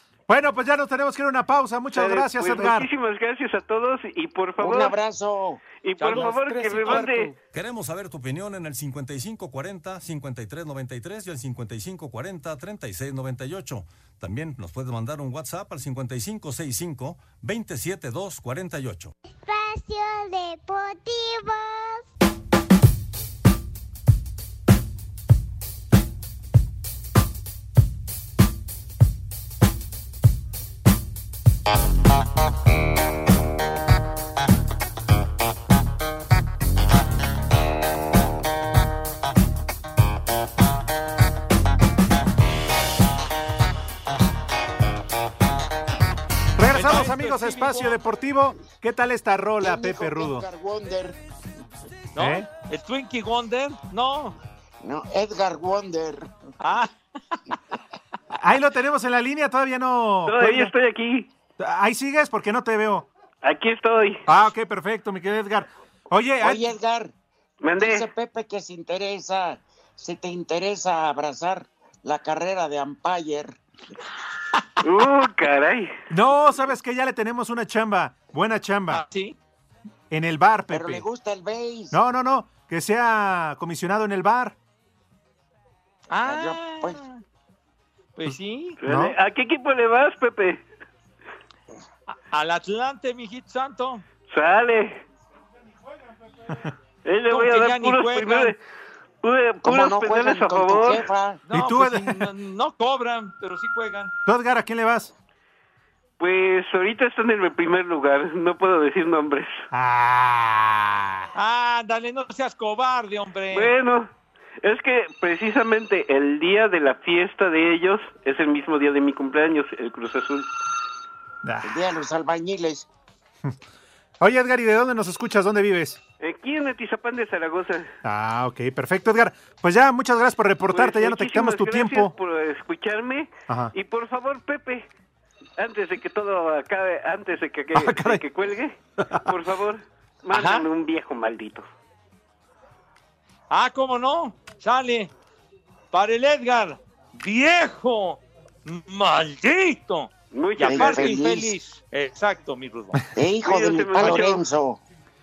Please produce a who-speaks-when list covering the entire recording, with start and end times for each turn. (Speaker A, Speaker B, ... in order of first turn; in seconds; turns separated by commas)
Speaker A: 0.3-2.9, Speaker B: 1.9-4.9, Speaker C: 4.6-5.6, Speaker B: 5.8-7.3, Speaker D: 6.0-7.3, Speaker E: 7.5-19.1, Speaker F: 19.4-22.0, Speaker A: 46.6-50.5, Speaker D: 46.7-47.9, Speaker C: 49.6-51.2, Speaker D: 52.1-54.4, Speaker A: 52.2-52.5, Speaker C: 54.8-56.3, Speaker D: 56.6-56.9, Speaker A: 58.4-60.7, Speaker B: 60.2-61.3, Speaker A: 61.6-63.1, Speaker B: 63.4-64.2, Speaker A: 64.3-66.6, Speaker C: 66.4-67.1, Speaker B: 67.6-68.0, Speaker C: 67.8-73.5, Speaker B: 74.8-75.9, Speaker A: 76.1-79.0, Speaker D: 78.9-79.3, Speaker A: 80.1-81.0, Speaker C: 80.7-82.0, Speaker A: 81.9-84.5, Speaker D: 86.1-87.2, Speaker C: 86.2-87.0, Speaker D: 88.2-88.8, Speaker B: 88.8-90.6, Speaker A: 88.8-89.2, Speaker D: 92.1-94.0, Speaker B: 94.3-95.0, Speaker B: 97.0-98.6, Speaker D: 97.3-98.5, Speaker B: 99.2-101.0, Speaker C: 99.6-101.4, Speaker D: 101.5-104.1, Speaker A: 101.5-102.3, Speaker A: 104.2-105.1, Speaker B: 106.2-109.6, Speaker A: 109.7-111.2, Speaker D: 111.3-113.7, Speaker B: 113.5-114.1, Speaker B: 114.6-120.5, Speaker A: 121.4-121.7, Speaker C: 121.6-122.9, Speaker A: 124.2-126.0, Speaker B: 126.2-127.9, Speaker A: 128.0-132.1, Speaker B: 130.7-134.9, Speaker A: 133.5-133.7, Speaker B: 135.6-141.6, Speaker A: 137.7-138.2, Speaker D: 140.3-140.7, Speaker D: 143.5-145.1, Speaker D: 145.9-153.0, Speaker B: 150.3-151.2, Speaker C: 150.6-151.6, Speaker C: 153.1-154.8, Speaker B: 153.4-154.4